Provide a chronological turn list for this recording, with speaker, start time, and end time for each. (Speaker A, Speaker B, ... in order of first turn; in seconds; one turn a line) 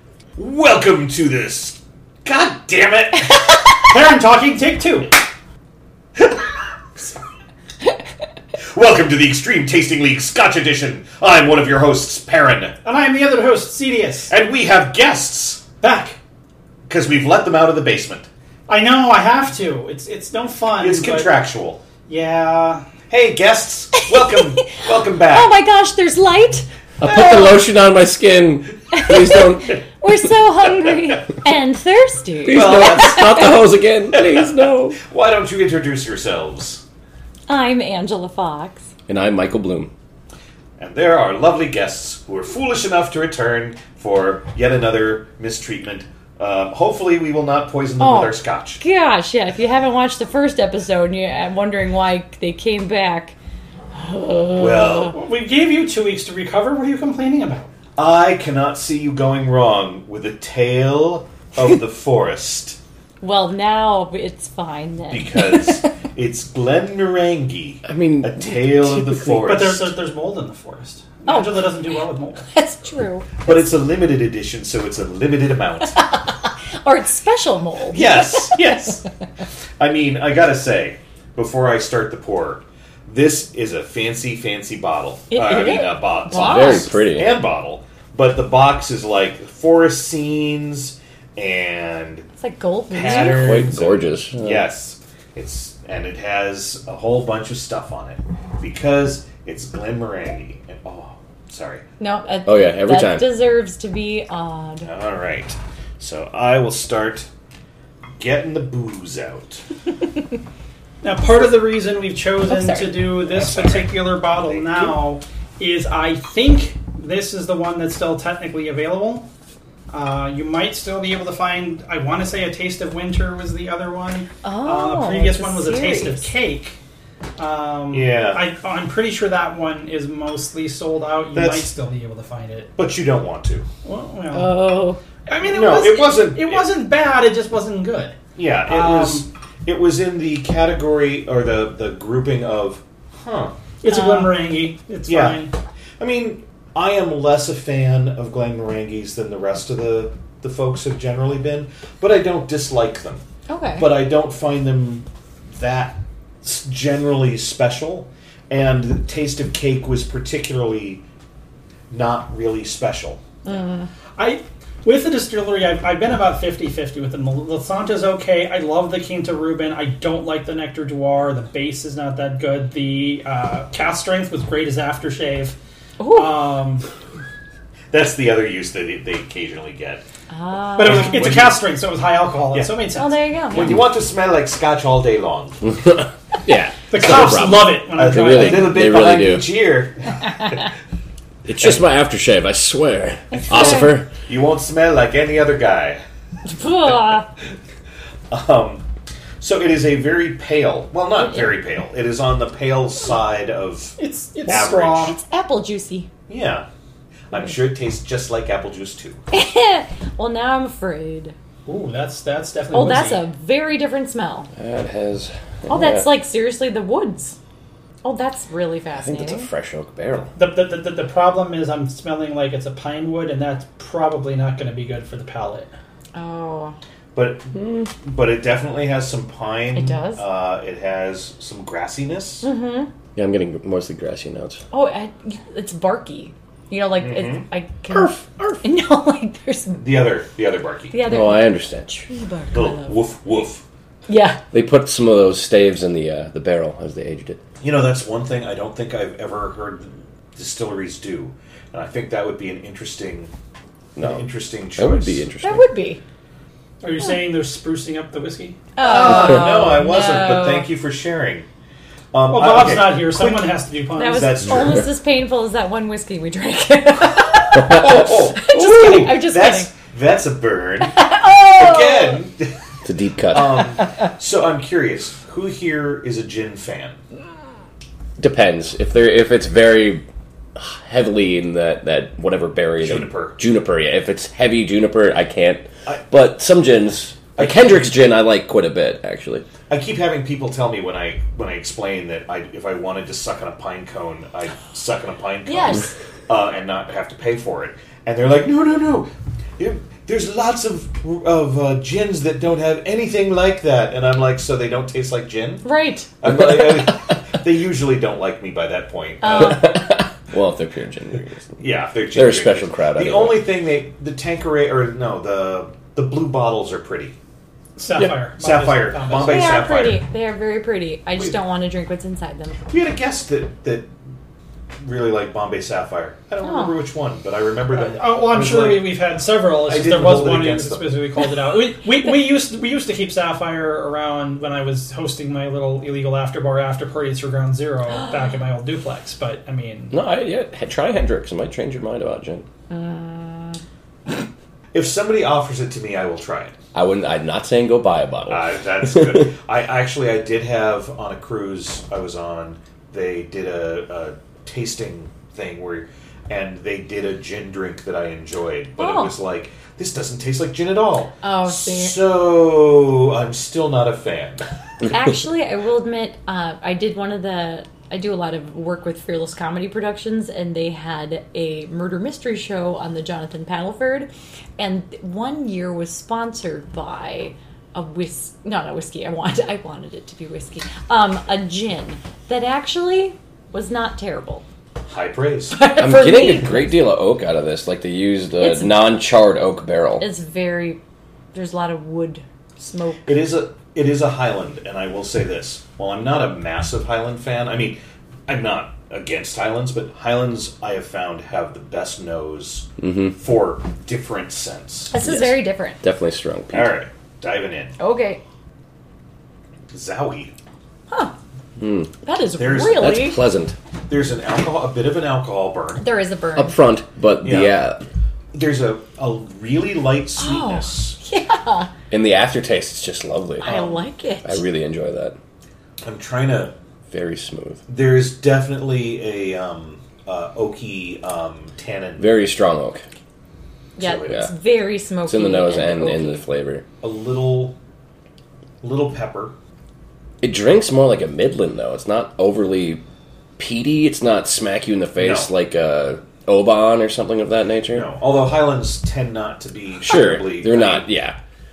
Speaker A: 0.4-3.5
Speaker B: 3.8-5.1
Speaker A: 8.7-12.8
Speaker B: 12.8-14.3
Speaker A: 14.3-15.6
Speaker B: 15.8-16.2
Speaker A: 16.9-18.3
Speaker B: 18.7-21.3
Speaker A: 20.8-21.8
Speaker B: 22.1-22.9
Speaker A: 23.1-25.5
Speaker C: 24.1-27.6
Speaker D: 27.0-29.8
Speaker C: 28.9-33.6
Speaker D: 32.4-35.0
Speaker A: 32.5-33.5
Speaker A: 34.1-36.8
Speaker C: 37.5-38.9
Speaker D: 39.1-39.9
Speaker A: 40.8-48.8
Speaker C: 48.0-53.4
Speaker C: 53.9-55.2
Speaker A: 54.6-55.1
Speaker B: 55.1-57.7
Speaker A: 58.0-62.8
Speaker C: 63.2-65.9
Speaker A: 65.1-69.9
Speaker D: 67.8-69.4
Speaker B: 69.4-72.5
Speaker C: 71.3-72.0
Speaker C: 72.5-73.7
Speaker A: 73.4-76.0
Speaker C: 76.0-78.7
Speaker A: 77.9-79.0
Speaker A: 79.8-92.3
Speaker C: 85.3-87.0
Speaker D: 86.3-87.3
Speaker C: 92.4-93.8
Speaker A: 92.9-101.8
Speaker D: 93.0-94.6
Speaker C: 102.0-104.9
Speaker D: 102.5-103.3
Speaker A: 104.8-107.3
Speaker A: 108.2-109.6
Speaker B: 111.0-119.3
Speaker C: 112.4-113.1
Speaker A: 113.2-115.0
Speaker B: 119.9-126.8
Speaker C: 124.4-126.3
Speaker B: 127.4-132.7
Speaker A: 127.9-128.4
Speaker A: 131.3-131.7
Speaker A: 132.8-133.7
Speaker B: 133.8-134.8
Speaker C: 134.3-135.0
Speaker B: 135.3-139.2
Speaker A: 135.4-136.7
Speaker A: 138.3-143.5
Speaker B: 143.8-145.5
Speaker C: 143.9-144.3
Speaker A: 145.1-145.4
Speaker A: 146.0-153.2
Speaker C: 153.5-153.9
Speaker A: 153.8-161.0
Speaker A: 161.9-163.2
Speaker C: 163.4-163.9
Speaker B: 164.2-175.6
Speaker C: 176.0-176.3
Speaker B: 176.1-176.8
Speaker A: 177.9-180.0
Speaker C: 180.3-181.3
Speaker B: 180.8-183.2
Speaker A: 180.8-181.6
Speaker A: 182.5-182.8
Speaker C: 182.9-183.8
Speaker A: 183.5-185.6
Speaker D: 185.6-189.5
Speaker B: 186.9-188.8
Speaker A: 187.0-190.7
Speaker D: 191.4-194.1
Speaker C: 193.3-193.9
Speaker A: 193.5-196.0
Speaker C: 196.4-197.3
Speaker A: 198.3-198.8
Speaker A: 199.4-205.1
Speaker C: 201.1-201.6
Speaker B: 204.0-205.2
Speaker C: 204.5-206.1
Speaker A: 206.3-206.7
Speaker A: 207.3-209.2
Speaker C: 209.3-211.3
Speaker B: 211.7-213.2
Speaker C: 212.7-214.5
Speaker D: 214.6-216.1
Speaker C: 215.7-217.4
Speaker C: 218.0-219.5
Speaker D: 219.0-220.3
Speaker B: 220.3-225.7
Speaker C: 226.1-226.8
Speaker A: 227.1-232.5
Speaker D: 227.5-227.8
Speaker C: 229.7-230.2
Speaker C: 232.4-232.9
Speaker D: 233.2-234.6
Speaker C: 234.7-240.0
Speaker A: 236.9-237.5
Speaker B: 237.9-238.6
Speaker A: 239.8-241.0
Speaker C: 240.9-243.1
Speaker D: 241.0-242.0
Speaker A: 242.5-243.6
Speaker C: 244.1-244.4
Speaker D: 244.5-247.4
Speaker A: 247.6-253.3
Speaker D: 253.9-255.7
Speaker A: 254.0-255.3
Speaker C: 255.4-256.0
Speaker B: 256.8-258.6
Speaker C: 258.8-260.7
Speaker A: 258.8-261.5
Speaker A: 262.1-263.2
Speaker B: 262.3-264.4
Speaker C: 263.2-269.7
Speaker A: 264.1-264.8
Speaker A: 267.6-271.0
Speaker C: 270.8-272.2
Speaker A: 271.6-272.6
Speaker D: 272.8-273.7
Speaker A: 273.3-277.0
Speaker D: 278.2-289.4
Speaker A: 282.8-283.4
Speaker A: 287.4-288.1
Speaker A: 289.7-305.7
Speaker C: 295.4-295.9
Speaker C: 305.6-306.1
Speaker A: 306.2-309.8
Speaker D: 306.2-306.8
Speaker C: 309.2-309.8
Speaker D: 309.3-311.6
Speaker A: 311.6-317.1
Speaker D: 312.1-313.5
Speaker B: 317.8-319.7
Speaker A: 318.4-320.0
Speaker C: 319.2-322.6
Speaker A: 322.7-323.9
Speaker A: 324.8-329.0
Speaker C: 326.4-326.8
Speaker B: 327.7-339.9
Speaker A: 329.5-331.0
Speaker D: 339.9-342.4
Speaker C: 342.7-343.6
Speaker A: 344.7-346.5
Speaker D: 346.7-349.3
Speaker A: 348.3-364.4
Speaker C: 358.8-359.1
Speaker C: 361.2-362.0
Speaker C: 364.9-384.4
Speaker A: 384.9-385.6
Speaker C: 385.5-386.7
Speaker D: 385.8-390.1
Speaker C: 388.4-389.0
Speaker C: 390.0-390.8
Speaker C: 391.3-393.2
Speaker A: 393.0-404.9
Speaker D: 402.8-403.1
Speaker C: 404.9-405.8
Speaker D: 405.0-406.8
Speaker A: 406.5-407.8
Speaker C: 407.8-408.2
Speaker A: 409.7-410.3
Speaker D: 411.6-411.9
Speaker C: 412.0-413.2
Speaker A: 412.4-413.1
Speaker D: 412.7-413.6
Speaker A: 413.9-415.9
Speaker C: 415.8-416.6
Speaker D: 416.4-417.8
Speaker A: 417.2-417.6
Speaker A: 418.3-421.0
Speaker C: 420.2-421.7
Speaker D: 421.9-425.2
Speaker C: 423.4-424.4
Speaker A: 423.5-423.7
Speaker A: 425.8-426.5
Speaker D: 426.9-427.6
Speaker A: 427.7-432.2
Speaker D: 432.0-432.8
Speaker C: 433.8-436.2
Speaker A: 433.8-434.2
Speaker D: 434.1-434.3
Speaker D: 435.1-436.6
Speaker A: 436.8-437.6
Speaker A: 438.6-439.4
Speaker D: 440.2-442.8
Speaker D: 443.4-447.9
Speaker A: 445.0-445.3
Speaker A: 447.7-450.9
Speaker D: 449.8-451.2